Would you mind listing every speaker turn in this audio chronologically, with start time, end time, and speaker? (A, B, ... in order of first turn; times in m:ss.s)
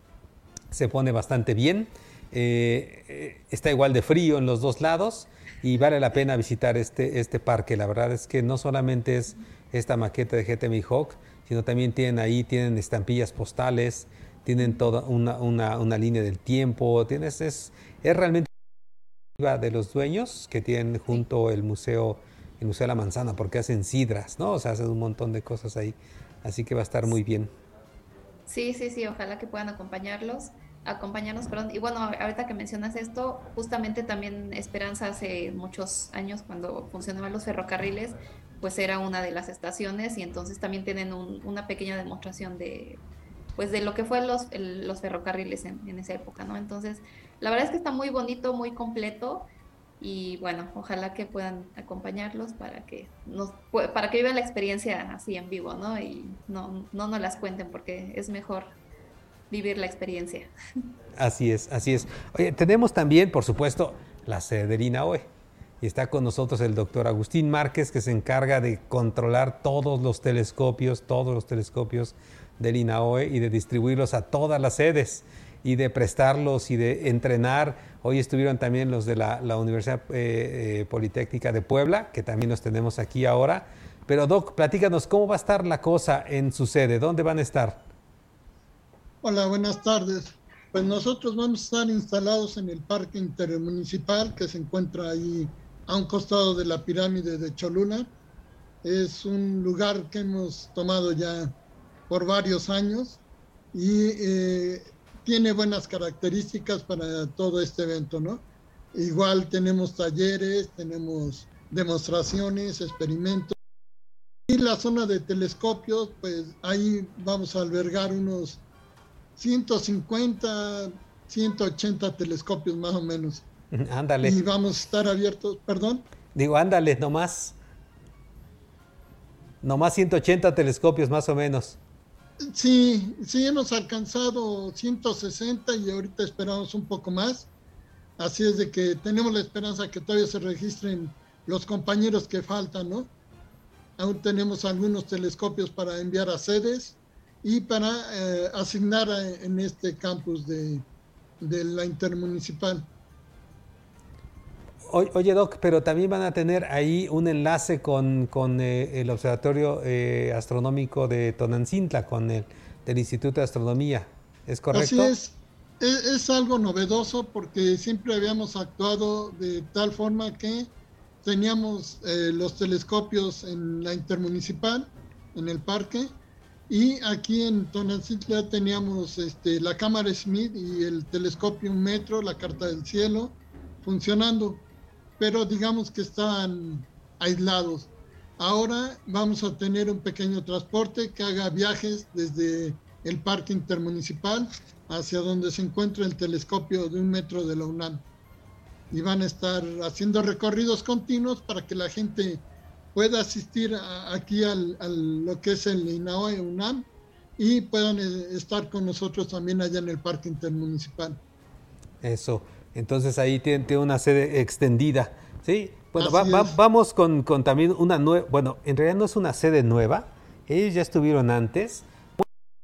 0:00.7-0:18.5 A
0:19.4-0:27.5 A
0:28.5-0:43.0 B
0:43.6-0:49.5 B
0:50.0-0:58.7 B
0:59.5-1:00.5 B
1:01.2-1:05.2 A
1:05.8-1:27.8 A
1:29.2-1:38.1 C
1:38.8-1:41.5 C
1:42.1-1:43.2 C
1:43.7-1:48.4 C
1:48.9-1:53.5 C
1:54.5-1:58.6 C
1:59.4-2:03.4 C
2:03.7-2:04.4 A
2:04.2-2:06.0 C
2:06.3-2:07.5 A
2:09.6-2:11.8 A
2:12.5-2:17.5 C
2:18.2-2:23.1 C
2:24.0-2:30.8 C
2:31.4-2:32.9 C
2:34.9-2:45.1 A
2:44.7-2:50.7 C
2:51.2-2:56.1 C
2:56.7-3:04.6 C
3:05.2-3:18.0 C
3:18.9-3:22.4 C
3:22.9-3:26.9 C
3:27.4-3:31.2 C
3:32.0-3:42.2 A
3:36.0-3:36.5 C